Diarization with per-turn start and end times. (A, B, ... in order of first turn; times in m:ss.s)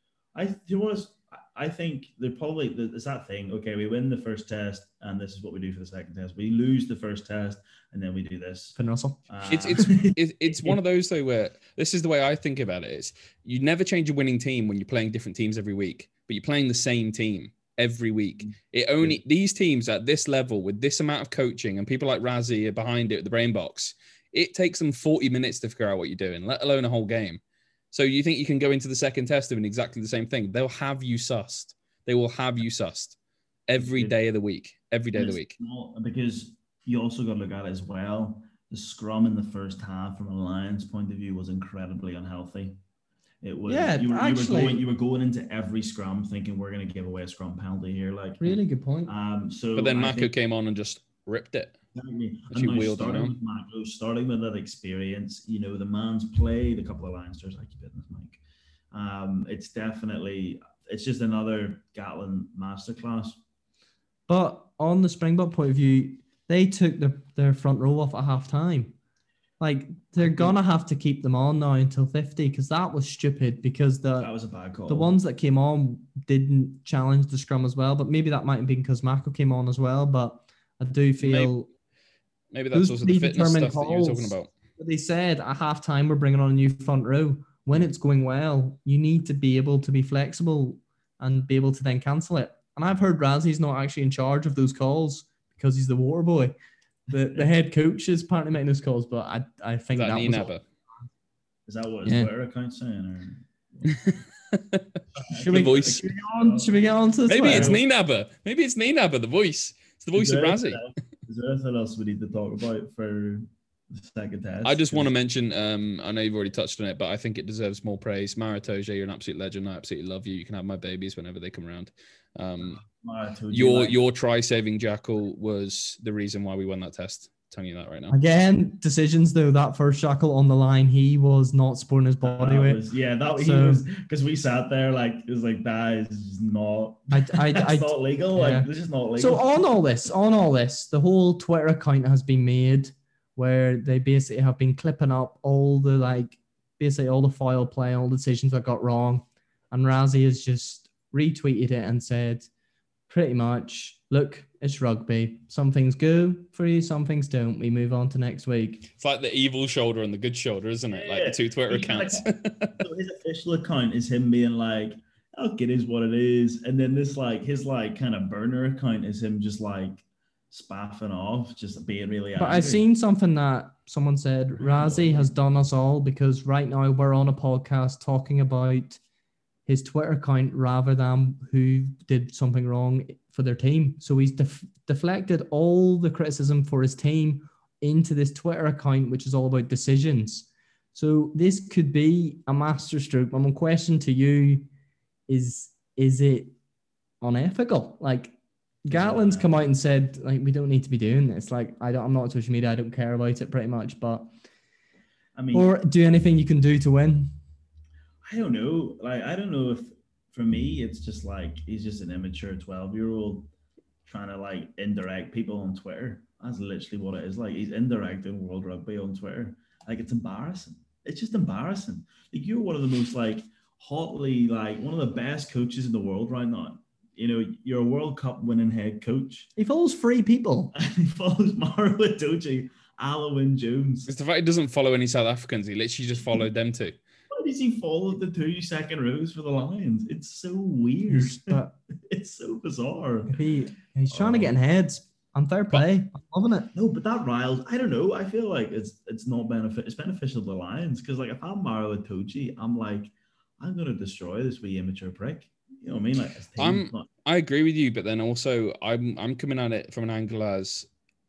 0:00.4-0:08.8 A
0:08.8-0:10.0 B
0:09.3-0:10.1 A
0:09.5-0:27.4 C
0:27.9-0:33.2 C
0:33.7-0:35.6 C
0:33.8-0:34.2 A
0:35.1-0:42.8 A
0:43.4-0:50.3 A
0:43.7-0:44.8 B
0:48.4-0:49.1 B
0:49.8-0:51.8 C
0:51.9-0:58.4 A
0:52.5-0:53.4 C
0:58.9-1:03.4 A
1:04.3-1:09.0 B
1:09.6-1:14.3 B
1:10.2-1:10.5 A
1:14.2-1:15.2 A
1:14.9-1:21.7 B
1:21.2-1:21.5 C
1:22.5-1:24.5 C
1:22.7-1:36.6 B
1:37.1-1:40.5 B
1:40.0-1:40.6 C
1:41.7-1:43.9 A
1:43.9-1:44.8 C
1:45.2-1:46.8 A
1:45.2-1:47.8 B
1:45.5-1:46.0 C
1:47.3-1:50.8 C
1:47.3-1:47.8 A
1:50.2-1:55.1 A
1:54.6-2:02.8 C
2:02.6-2:04.0 A
2:03.5-2:08.2 C
2:08.1-2:12.8 B
2:12.2-2:19.4 A
2:13.3-2:13.8 B
2:17.1-2:32.5 B
2:33.1-2:38.9 B
2:39.0-2:42.8 C
2:40.9-2:42.3 A
2:42.8-2:52.8 A
2:52.4-2:59.0 B
2:54.6-2:55.3 A
2:59.7-3:14.7 B
3:15.3-3:16.6 B
3:17.2-3:18.3 B
3:18.8-3:24.3 B
3:18.9-3:19.6 A
3:25.4-3:25.7 A
3:25.5-3:27.3 B
3:28.2-3:33.5 A
3:34.1-3:49.5 A
3:49.6-3:50.7 B
3:50.7-3:54.1 A
3:54.1-3:57.0 C
3:57.3-4:03.4 A
4:01.1-4:01.8 B
4:03.3-4:06.7 B
4:04.1-4:04.6 A
4:06.7-4:17.1 A
4:16.6-4:20.9 C